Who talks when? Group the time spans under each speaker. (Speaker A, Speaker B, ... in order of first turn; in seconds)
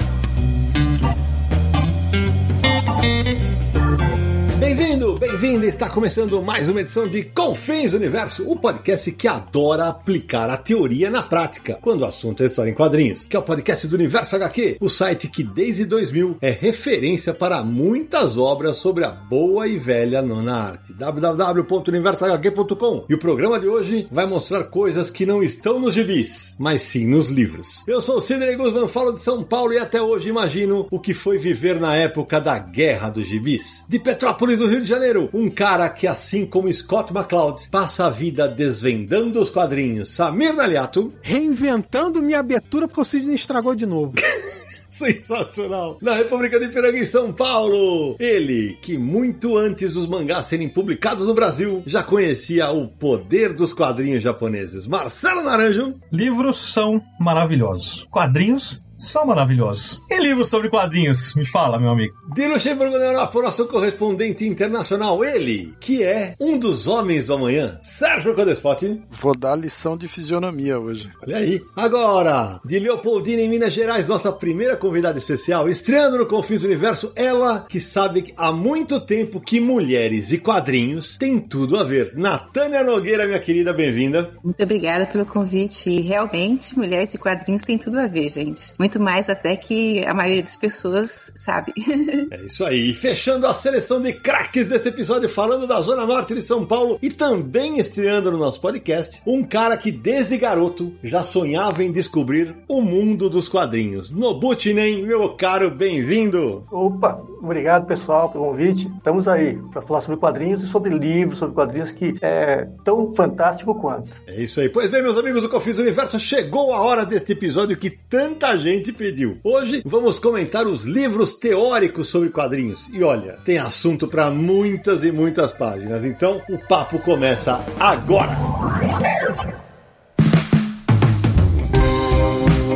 Speaker A: 4.5-41.2, 44.9-56.0, 62.3-69.0, 71.2-84.3, 92.3-106.7, 114.3-128.5
Speaker B: 41.2-44.2
Speaker C: 56.1-62.2
Speaker D: 69.1-71.1
Speaker E: 84.4-92.3
Speaker F: 106.7-114.2